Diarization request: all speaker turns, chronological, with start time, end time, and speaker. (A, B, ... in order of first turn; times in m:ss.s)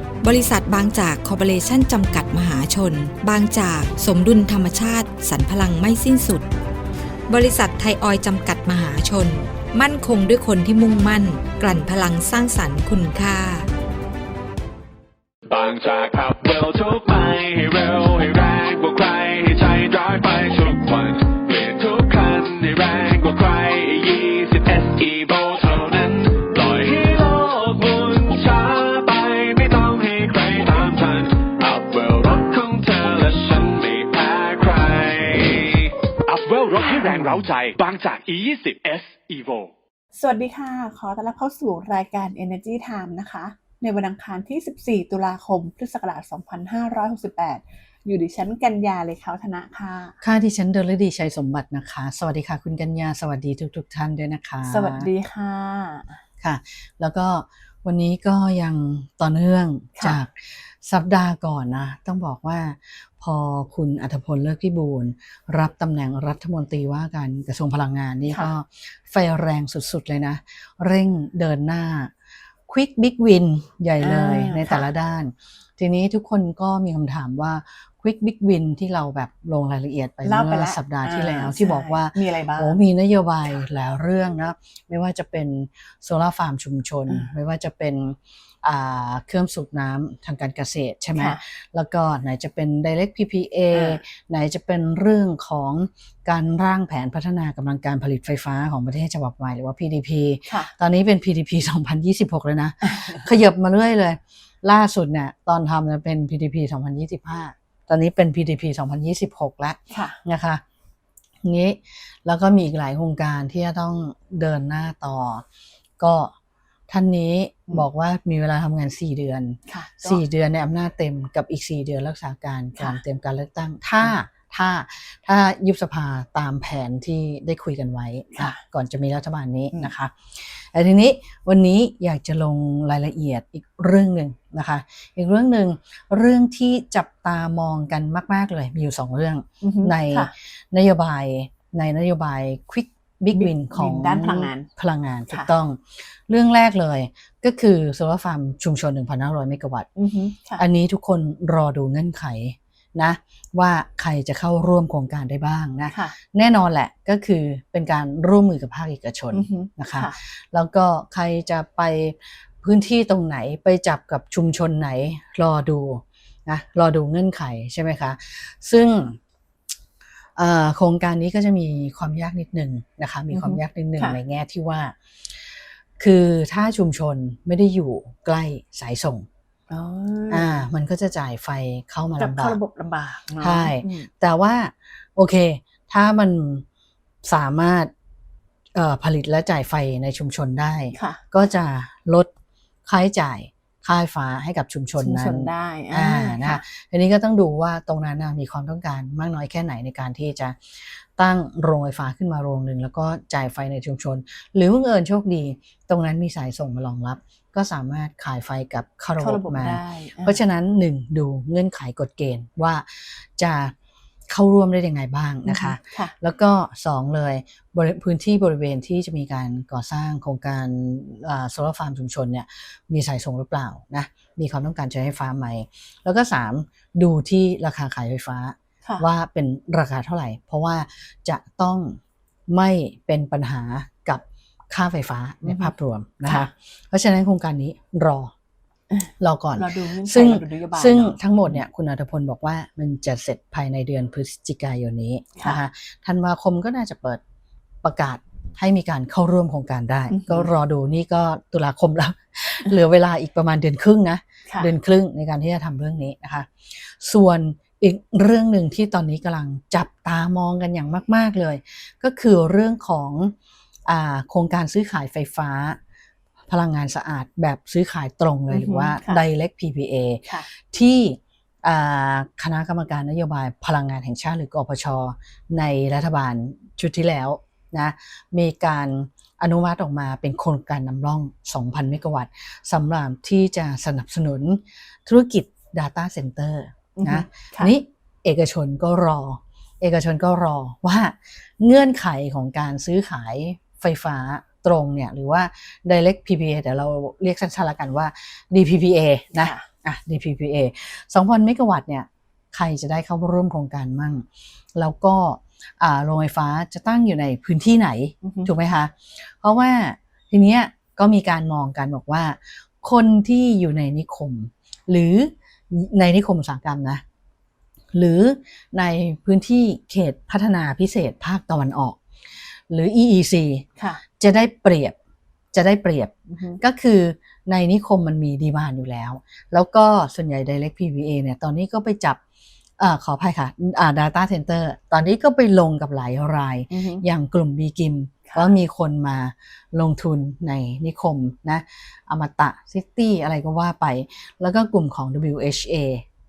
0:00.2-0:06.5 A
0:07.3-0:13.7 A
0:15.5-0:39.7 B
0:40.1-0:50.2 C
0:50.2-0:55.1 D
0:54.6-0:56.2 C
0:56.4-1:12.1 D
1:12.7-1:50.6 D
1:14.0-1:14.9 C
1:20.2-1:22.8 C
1:33.7-1:34.0 C
1:40.5-1:40.7 C
1:42.8-1:43.2 C
1:49.9-1:50.2 C
1:51.4-1:55.4 D
1:56.0-1:56.3 D
1:56.9-2:29.9 D
1:59.7-2:00.2 C
2:08.3-2:08.6 C
2:19.6-2:20.3 C
2:23.4-2:24.7 C
2:30.0-2:30.6 C
2:30.6-2:49.2 D
2:35.9-2:36.2 C
2:39.3-2:40.2 C
2:50.4-2:59.3 D
2:53.3-2:54.2 C
2:59.7-3:00.6 C
3:00.3-3:02.6 D
3:02.2-3:04.1 C
3:03.4-3:06.6 D
3:07.2-3:07.9 D
3:08.7-3:12.3 D
3:10.9-3:11.2 C
3:12.8-3:33.7 D
3:15.0-3:16.6 C
3:29.2-3:30.4 C
3:34.3-3:58.3 D
3:35.4-3:36.1 C
3:55.4-3:55.7 C
3:56.2-3:56.5 C
3:58.9-4:01.6 C
3:59.2-4:07.2 D
4:05.4-4:05.6 C
4:07.8-4:23.3 D
4:10.1-4:10.5 C
4:23.9-4:25.8 D
4:26.5-5:17.0 D
4:28.5-4:29.2 C
4:47.0-4:47.7 C
4:59.3-4:59.7 C
5:08.2-5:08.5 C
5:17.9-5:23.6 D
5:24.2-5:25.0 D
5:25.5-5:32.2 D
5:26.3-5:26.6 C
5:32.8-5:46.0 D
5:36.7-5:37.0 C